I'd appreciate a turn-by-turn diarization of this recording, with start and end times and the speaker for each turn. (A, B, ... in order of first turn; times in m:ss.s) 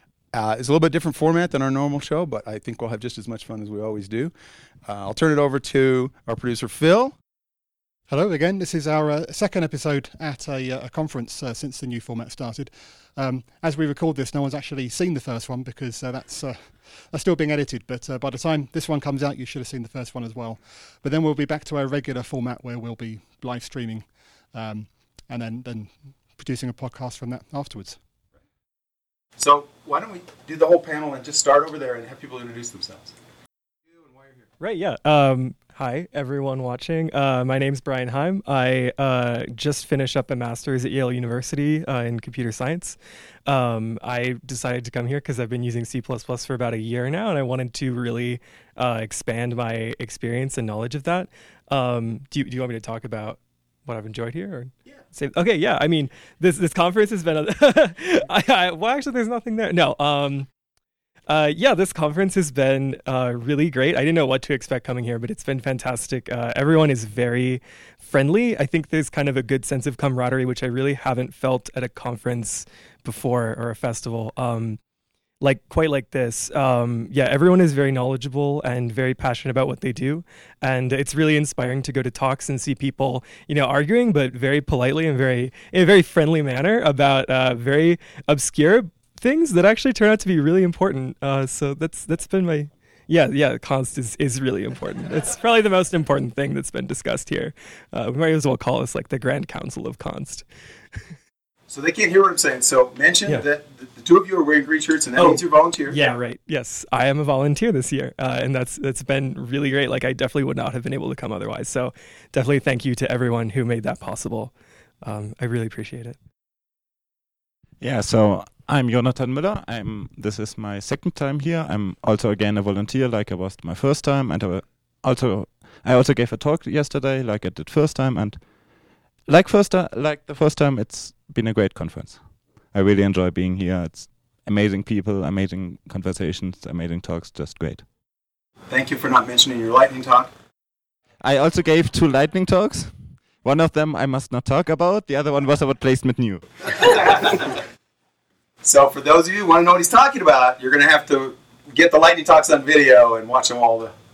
0:00.3-0:04.3 A
0:04.8-0:07.2 A
0:08.1-0:28.0 B
0:29.4-0:33.1 A
0:34.6-1:00.5 C
1:01.3-1:14.8 C
1:15.4-1:40.4 C
1:41.7-1:46.0 A
1:45.2-1:56.2 C
1:57.8-2:08.7 D
2:09.2-2:17.9 D
2:18.7-2:20.3 A
2:21.2-2:26.4 D
2:28.6-2:33.9 A